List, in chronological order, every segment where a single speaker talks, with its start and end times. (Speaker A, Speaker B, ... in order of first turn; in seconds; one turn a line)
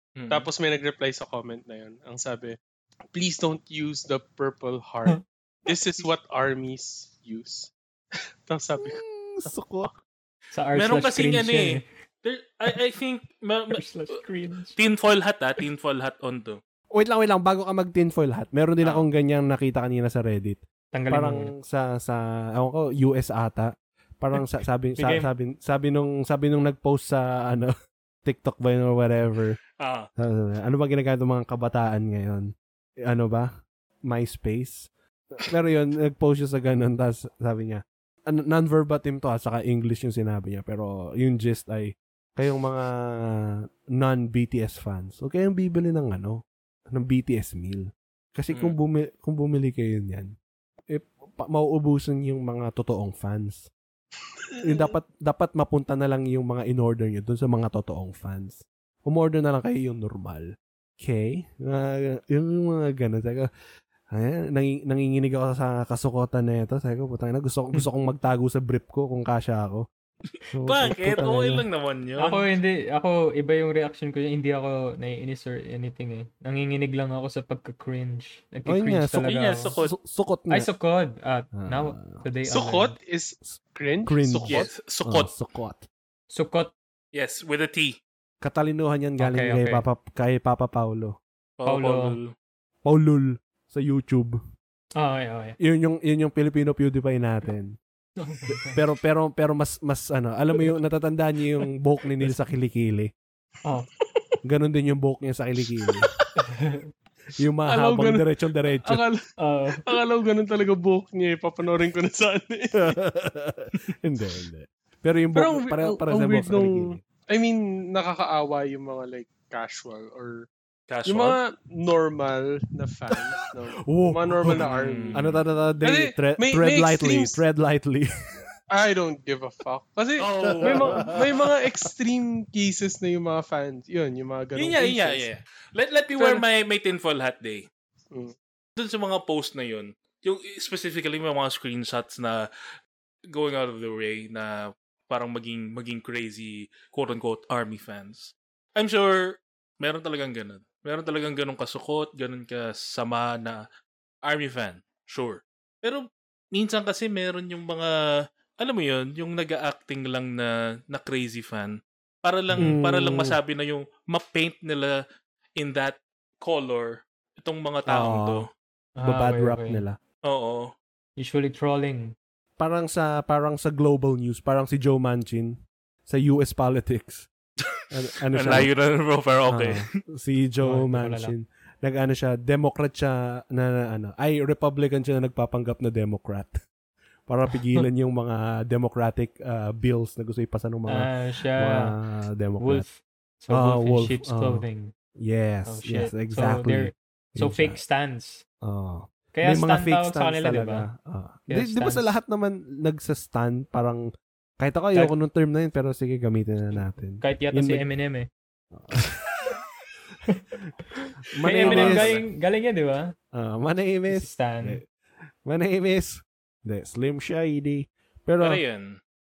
Speaker A: 0.2-0.5
Speaker B: 0.3-2.6
Speaker B: 3.1-7.7
Speaker B: 8.5-9.0
Speaker C: 8.8-10.0
Speaker D: 10.5-11.8
Speaker A: 10.7-13.8
Speaker D: 13.7-14.8
Speaker A: 14.8-16.6
Speaker C: 16.9-27.7
Speaker D: 20.9-21.5
Speaker D: 25.0-25.3
Speaker C: 28.2-29.6
Speaker A: 29.8-30.1
Speaker C: 30.2-32.5
Speaker C: 33.1-33.5
Speaker C: 34.1-46.4
Speaker C: 46.9-50.3
Speaker C: 50.9-53.7
Speaker B: 54.5-54.9
Speaker C: 54.6-60.5
Speaker C: 61.0-63.5
Speaker C: 64.1-69.8
Speaker C: 70.5-71.7
Speaker A: 70.7-72.5
Speaker D: 72.2-79.8
Speaker C: 78.7-80.7
Speaker A: 79.2-79.9
Speaker D: 80.5-83.0
Speaker C: 81.6-82.1
Speaker B: 82.5-84.7
Speaker C: 84.0-85.9
Speaker A: 84.5-85.3
Speaker D: 86.3-86.7
Speaker A: 87.1-88.0
Speaker C: 88.4-91.2
Speaker D: 89.2-89.8
Speaker A: 91.6-92.3
Speaker D: 91.7-92.2
Speaker C: 92.8-94.4
Speaker D: 95.0-95.6
Speaker C: 95.6-97.8
Speaker D: 98.2-98.8
Speaker C: 98.7-103.1
Speaker C: 104.4-106.1
Speaker D: 106.4-106.8
Speaker C: 107.4-109.0
Speaker B: 107.7-109.2
Speaker D: 109.4-109.9
Speaker B: 109.8-112.9
Speaker C: 112.8-117.0
Speaker B: 115.3-120.5
Speaker A: 120.9-121.4
Speaker B: 121.0-125.2
Speaker C: 123.8-128.1
Speaker A: 124.5-125.4
Speaker B: 125.8-127.4
Speaker B: 128.7-135.3
Speaker A: 130.2-130.9
Speaker C: 130.6-131.0
Speaker A: 134.6-137.7
Speaker B: 136.2-136.4
Speaker A: 138.8-142.4
Speaker A: 143.3-144.6
Speaker A: 145.1-153.6
Speaker A: 154.2-157.9
Speaker A: 158.6-165.0
Speaker D: 162.5-162.8
Speaker C: 162.6-163.4
Speaker A: 165.6-168.5
Speaker C: 167.9-168.4
Speaker D: 169.0-169.8
Speaker C: 169.0-170.0
Speaker A: 170.2-170.7
Speaker D: 171.2-172.2
Speaker C: 172.6-175.5
Speaker C: 176.1-177.3
Speaker C: 177.9-178.7
Speaker A: 178.3-179.8
Speaker C: 179.5-186.6
Speaker D: 180.6-181.3
Speaker C: 187.3-192.9
Speaker D: 190.9-191.9
Speaker D: 192.6-194.9
Speaker C: 193.5-194.6
Speaker C: 195.2-197.8
Speaker D: 195.7-198.4
Speaker C: 198.6-204.0
Speaker D: 199.3-200.9
Speaker D: 201.5-202.2
Speaker C: 204.6-207.8
Speaker D: 207.2-208.3
Speaker C: 208.8-209.1
Speaker D: 211.0-213.1
Speaker C: 211.3-212.1
Speaker A: 211.5-212.2
Speaker C: 213.3-214.8
Speaker D: 214.1-214.8
Speaker C: 215.4-218.6
Speaker A: 218.4-219.0